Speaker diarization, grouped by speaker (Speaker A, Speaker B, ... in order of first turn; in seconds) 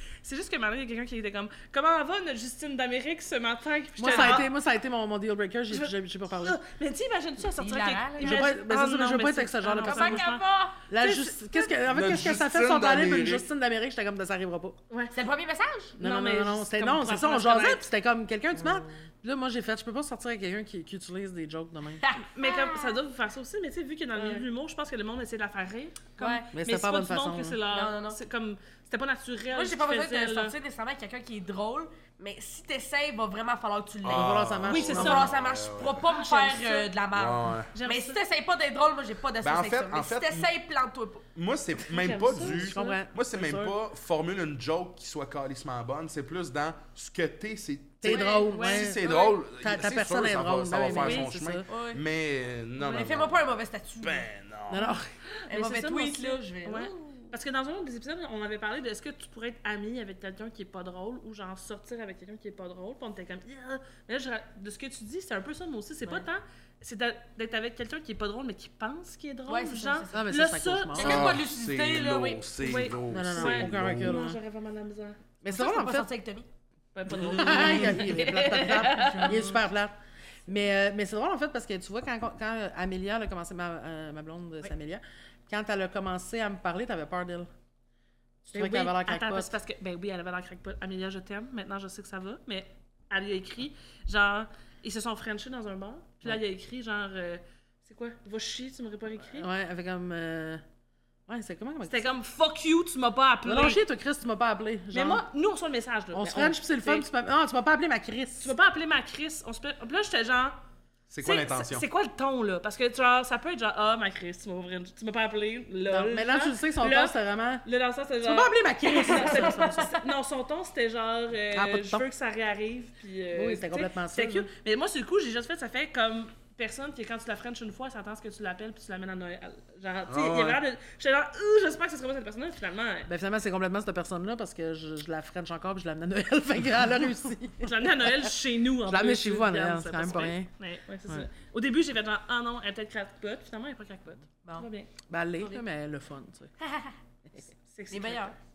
Speaker A: 0.2-4.5, 5.7-10.4, 11.0-11.7, 14.9-15.2, 16.0-17.9, 22.3-30.5, 34.7-35.3, 36.0-36.9, 37.7-38.2, 41.9-43.0, 48.5-49.4, 50.9-51.3, 55.4-71.2, 72.6-75.2, 77.0-79.6, 88.5-99.5, 101.9-103.8, 104.9-107.1, 108.4-110.6, 111.2-133.1, 137.6-144.9, 147.7-148.4
Speaker B: 4.0-6.6, 8.2-10.3, 10.9-14.8, 16.0-22.1, 26.5-27.6, 34.1-35.3, 42.4-43.7, 48.0-51.7, 54.7-55.1, 70.1-71.4, 73.1-74.4, 75.4-76.1, 77.1-87.5, 88.5-89.5, 99.3-100.6, 101.3-102.1, 103.5-105.2, 106.1-108.5, 115.9-117.7, 118.2-120.0, 121.5-122.0, 123.3-124.5, 133.1-138.3, 138.8-140.5, 145.1-146.5
Speaker C: 4.1-4.4, 7.5-8.5, 9.8-10.8, 15.1-16.0, 22.0-23.0, 24.2-24.4, 26.2-26.5, 27.7-28.2, 29.5-41.2, 48.1-48.5, 51.7-52.0, 52.8-54.3, 55.5-57.3, 69.5-70.2, 71.0-72.5, 75.5-76.5, 77.5-77.8, 78.8-79.6, 146.6-146.9, 147.9-148.4
Speaker D: 11.9-13.5, 34.0-36.1, 37.1-37.7, 39.4-40.5, 41.4-53.5, 54.0-54.9, 71.0-74.2, 111.1-111.9, 130.1-130.6